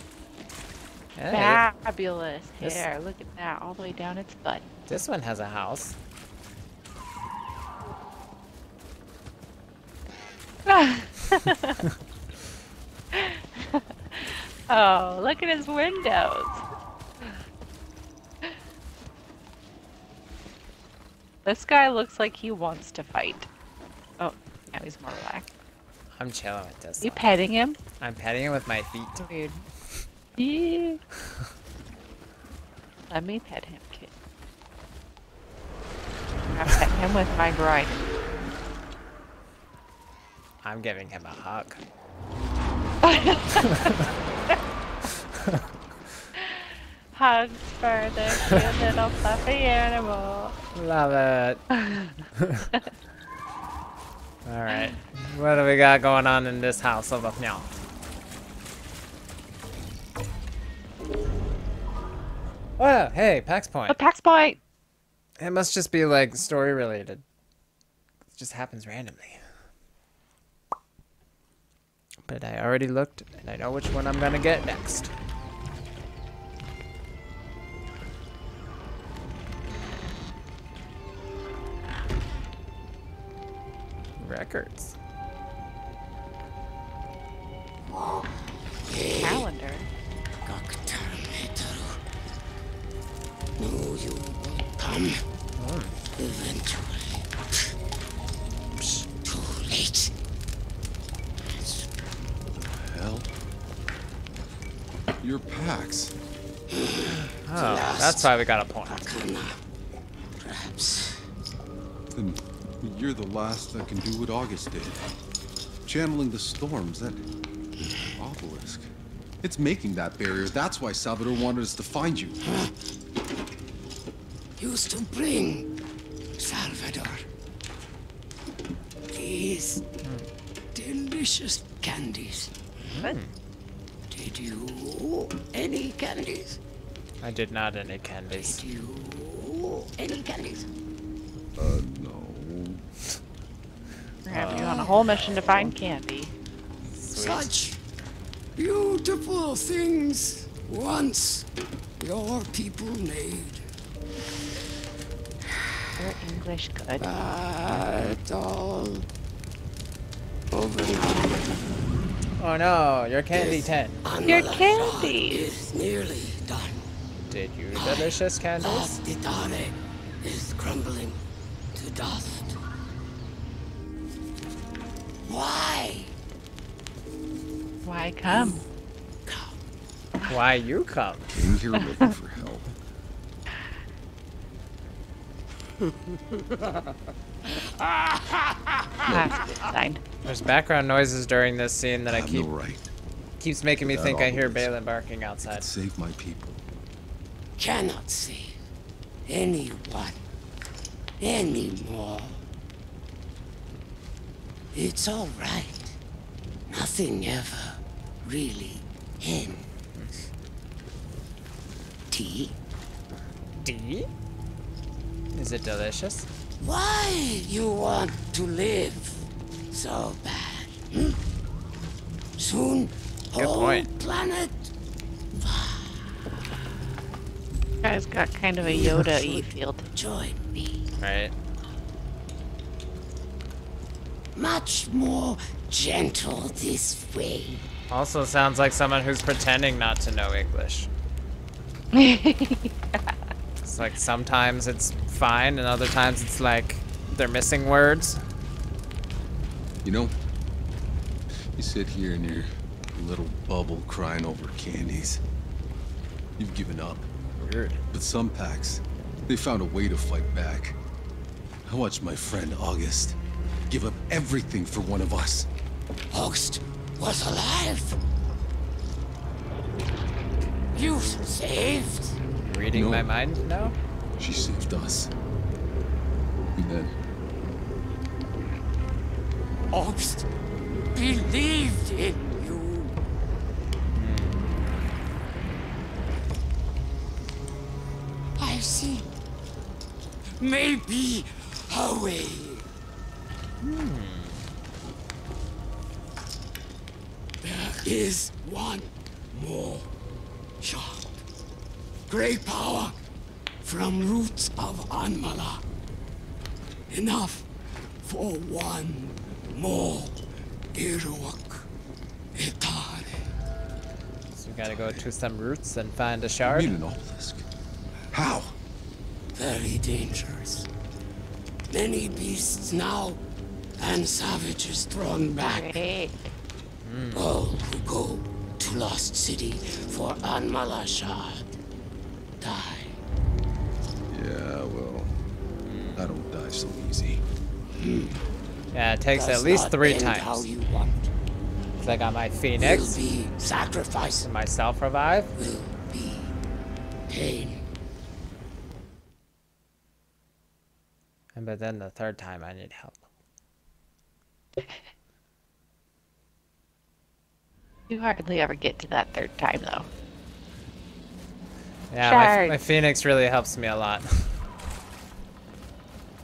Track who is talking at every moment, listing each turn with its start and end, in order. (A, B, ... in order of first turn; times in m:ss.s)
0:01.2-0:01.6 A
0:01.3-0:04.7 B
0:04.9-0:06.0 A
0:10.6-0:11.8 B
0:13.1-0:16.6 B
0:21.4-0:23.5 B
0:24.2-0:25.5 B
0:26.2-0:27.3 A
0:27.0-0:27.8 B
0:28.0-0:29.2 A
0:29.2-0:29.6 B
0:30.3-0:31.0 B
0:33.1-0:34.1 B
0:36.5-0:38.0 B
0:40.6-0:41.8 A
0:43.0-0:44.6 B
0:46.3-0:50.6 B
0:48.5-0:48.7 A
0:50.8-0:51.6 A
0:51.7-0:52.2 B
0:52.4-0:52.7 A
0:54.4-0:57.7 A
0:54.7-0:55.0 B
1:02.8-1:04.0 A
1:03.9-1:04.6 B
1:05.4-1:07.2 A
1:08.3-1:09.4 A
1:12.2-1:15.1 A
1:24.2-1:24.9 A
1:27.9-1:29.4 C
1:29.2-1:29.9 B
1:30.4-1:32.0 C
1:33.6-1:35.2 C
1:35.6-1:36.0 A
1:36.2-1:37.7 C
1:38.8-1:39.0 A
1:39.2-1:40.1 C
1:41.4-1:41.9 C
1:42.6-1:43.3 D
1:45.2-1:46.1 D
1:46.7-1:48.3 C
1:47.5-1:49.1 A
1:48.8-1:49.6 C
1:50.4-1:51.3 C
1:52.1-1:55.0 D
1:55.8-1:57.2 D
1:57.8-1:58.1 C
1:58.1-1:58.9 D
1:59.4-2:02.4 D
2:02.5-2:02.7 C
2:04.6-2:05.7 C
2:06.4-2:07.3 C
2:09.1-2:09.8 C
2:10.0-2:10.3 A
2:10.7-2:13.1 C
2:12.9-2:13.3 A
2:14.1-2:16.6 C
2:17.2-2:18.6 A
2:18.4-2:20.7 C
2:21.6-2:22.9 D
2:24.2-2:26.3 B
2:24.3-2:25.7 A
2:26.9-2:27.5 A
2:27.1-2:27.8 C
2:28.6-2:31.5 C
2:32.0-2:33.7 C
2:36.0-2:37.0 B
2:37.0-2:39.1 C
2:40.5-2:41.5 C
2:42.4-2:44.0 A
2:43.3-2:46.9 C
2:44.2-2:45.5 B
2:47.3-2:48.9 A
2:47.7-2:51.2 C
2:51.8-2:52.6 C
2:55.2-2:56.1 C
2:57.8-2:58.6 B
2:58.2-2:58.7 C
2:59.2-2:59.6 C
3:00.3-3:01.3 A
3:01.3-3:02.7 D
3:07.5-3:09.6 C
3:09.1-3:10.0 B
3:10.2-3:12.5 A
3:12.1-3:12.9 D
3:13.4-3:15.7 A
3:13.8-3:14.7 D
3:15.4-3:16.6 D
3:17.6-3:18.6 C
3:19.2-3:20.2 C
3:21.2-3:22.4 C
3:24.7-3:26.0 C
3:26.7-3:29.7 C
3:32.1-3:32.6 C
3:33.6-3:34.1 A
3:35.3-3:36.3 A
3:36.6-3:41.2 C
3:42.4-3:44.7 C
3:43.4-3:43.9 A
3:45.4-3:46.3 C
3:47.8-3:49.9 B
3:48.6-3:50.9 C
3:51.0-3:51.3 A
3:54.3-3:57.7 C
3:57.9-4:00.9 A
4:01.9-4:03.1 B
4:03.6-4:08.2 A
4:09.8-4:10.1 D
4:11.5-4:15.2 D
4:16.4-4:17.1 D
4:17.4-4:17.8 A
4:17.9-4:20.8 D
4:21.6-4:23.2 D
4:23.7-4:25.5 D
4:26.1-4:28.0 C
4:30.7-4:32.2 C
4:32.4-4:33.8 A
4:32.7-4:33.1 D
4:34.2-4:35.1 D
4:36.6-4:36.9 D
4:39.7-4:40.3 C
4:40.9-4:43.0 C
4:44.0-4:44.4 A
4:48.4-4:49.1 C
4:50.4-4:52.6 C
4:53.6-4:54.5 A
4:57.4-4:59.9 C
5:00.6-5:01.1 C
5:02.1-5:03.0 C
5:03.6-5:05.6 C
5:06.9-5:07.5 C
5:08.0-5:10.2 C
5:10.7-5:11.7 C
5:12.3-5:13.2 C
5:14.3-5:16.7 A
5:14.6-5:15.0 D
5:16.4-5:17.4 D
5:18.1-5:18.5 D
5:19.3-5:20.7 C
5:21.7-5:23.2 C
5:23.8-5:25.8 C
5:25.4-5:26.3 B
5:26.8-5:27.3 A
5:27.1-5:31.5 C
5:32.4-5:33.0 C
5:34.1-5:35.2 D
5:35.6-5:36.1 A
5:36.0-5:37.2 D
5:37.8-5:38.2 C
5:38.7-5:40.5 A
5:39.1-5:41.1 C
5:41.8-5:43.0 A
5:42.6-5:44.3 C
5:44.2-5:45.3 A
5:45.4-5:46.3 C
5:47.1-5:47.6 C
5:51.3-5:53.0 A
5:57.9-5:59.9 B
6:01.9-6:04.3 A
6:02.0-6:02.6 B